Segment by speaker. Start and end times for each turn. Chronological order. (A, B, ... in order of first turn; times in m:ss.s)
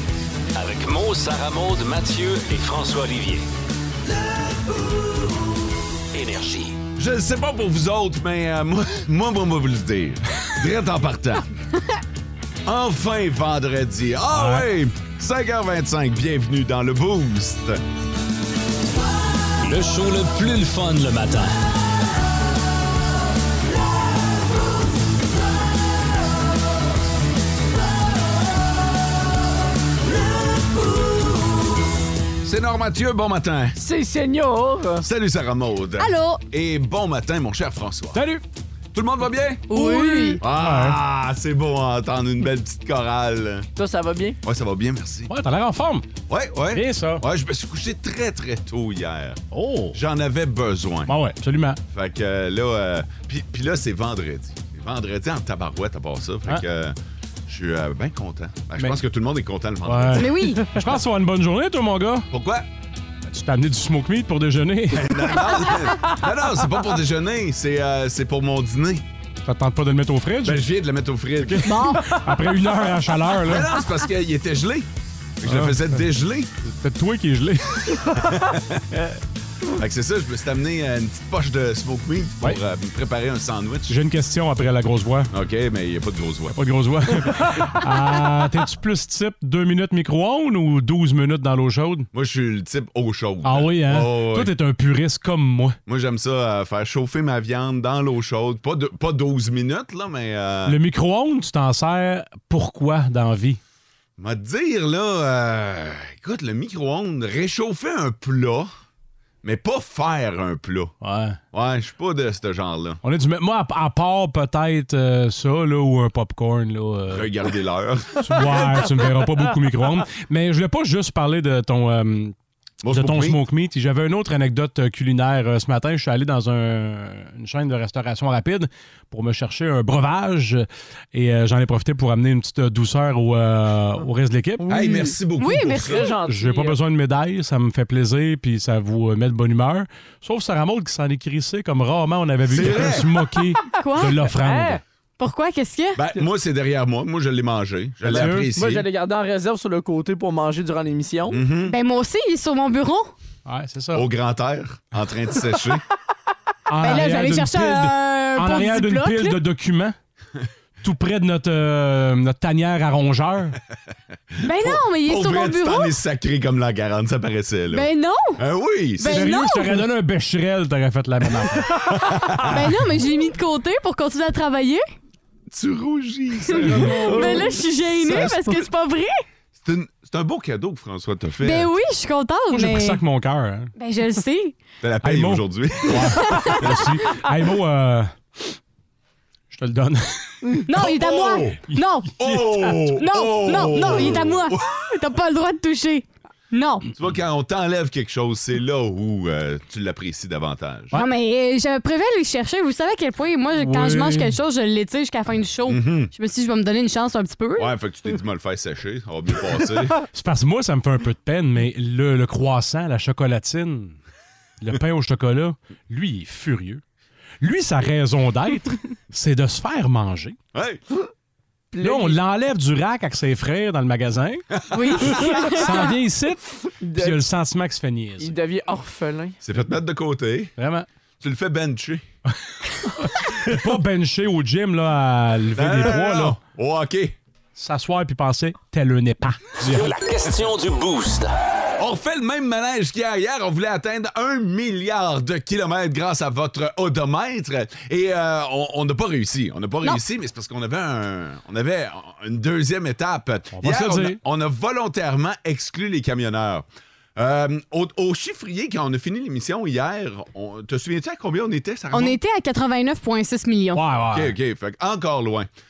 0:00.5-0:03.4 A
0:06.1-0:06.8 A
0:07.0-0:11.5 B
0:12.6-0:17.8 B
0:14.3-0:14.7 C
0:19.6-0:21.5 A
0:32.4-0:33.8 B
0:33.8-0:35.0 D
0:35.0-0:38.2 B
0:36.0-0:36.4 E
0:38.1-0:38.4 C
0:38.9-0:39.6 B
0:39.7-0:40.4 E
0:39.8-0:40.4 D
0:40.4-0:43.6 B
0:40.5-0:41.0 C
0:43.8-0:44.4 D
0:44.4-0:45.3 B
0:45.3-0:46.0 C
0:46.3-0:49.4 B
0:46.7-0:47.2 C
0:49.5-0:50.0 C
0:49.9-0:51.1 B
0:51.1-0:51.8 C
0:51.9-0:57.0 B
0:57.5-1:00.3 B
0:59.8-1:02.3 C
1:00.1-1:00.6 E
1:02.3-1:02.6 B
1:03.3-1:05.4 C
1:04.9-1:09.0 B
1:09.4-1:10.6 C
1:10.4-1:11.7 B
1:11.4-1:13.8 C
1:11.6-1:12.2 E
1:13.4-1:14.9 B
1:15.4-1:16.5 B
1:15.4-1:15.8 C
1:16.8-1:18.2 C
1:18.3-1:18.8 B
1:19.7-1:24.0 B
1:23.9-1:25.3 C
1:25.3-1:26.6 B
1:26.5-1:32.1 C
1:32.1-1:34.5 B
1:33.4-1:35.8 C
1:35.9-1:40.8 B
1:40.6-1:43.6 C
1:44.2-1:48.7 B
1:49.4-1:50.9 B
1:51.0-1:51.4 C
1:51.5-1:53.0 B
1:53.0-1:57.3 C
1:57.1-1:58.8 B
1:58.2-2:02.3 C
2:02.8-2:03.4 B
2:02.9-2:14.6 C
2:14.6-2:15.2 D
2:14.7-2:16.1 B
2:15.4-2:16.1 E
2:15.9-2:16.8 D
2:16.2-2:24.8 C
2:22.5-2:23.2 B
2:23.8-2:24.2 E
2:24.3-2:24.8 D
2:25.2-2:26.0 E
2:26.0-2:28.8 B
2:28.0-2:28.5 C
2:28.0-2:31.4 D
2:31.3-2:31.7 B
2:31.6-2:33.1 E
2:33.4-2:34.0 C
2:33.9-2:35.8 B
2:36.7-2:39.9 C
2:36.8-2:39.4 E
2:40.8-2:43.6 C
2:44.4-2:46.0 E
2:44.4-2:49.3 B
2:47.7-2:48.4 E
2:49.0-2:49.8 E
2:49.0-2:51.8 C
2:51.9-2:52.6 B
2:52.4-2:54.8 E
2:55.5-2:57.4 B
2:56.6-2:59.2 E
2:56.7-2:57.3 C
2:56.7-2:57.5 D
2:57.9-2:58.5 B
2:59.6-3:01.7 B
3:01.4-3:03.0 E
3:02.5-3:03.7 C
3:03.8-3:04.6 E
3:04.8-3:06.9 B
3:05.0-3:08.1 C
3:06.1-3:06.8 E
3:09.5-3:10.6 C
3:10.7-3:12.1 E
3:10.8-3:11.6 B
3:11.7-3:12.5 C
3:12.2-3:14.8 B
3:12.9-3:16.9 E
3:16.9-3:21.0 B
3:20.9-3:27.7 E
3:23.5-3:24.3 C
3:25.7-3:26.1 B
3:27.6-3:30.0 B
3:30.1-3:34.0 C
3:34.6-3:36.8 C
3:37.4-3:40.4 C
3:40.5-3:40.8 B
3:41.7-3:42.2 D
3:41.8-3:44.4 C
3:44.7-3:45.9 E
3:45.2-3:46.4 C
3:46.8-3:47.2 D
3:46.9-3:48.3 C
3:48.2-3:49.4 D
3:49.4-3:50.5 B
3:50.6-3:50.9 C
3:51.2-3:52.0 B
3:53.2-3:56.4 C
3:55.6-3:57.2 B
3:57.6-3:59.9 C
3:59.6-4:01.4 A
4:01.8-4:22.1 B
4:13.6-4:14.2 C
4:21.9-4:23.8 E
4:23.7-4:24.3 C
4:24.1-4:25.5 B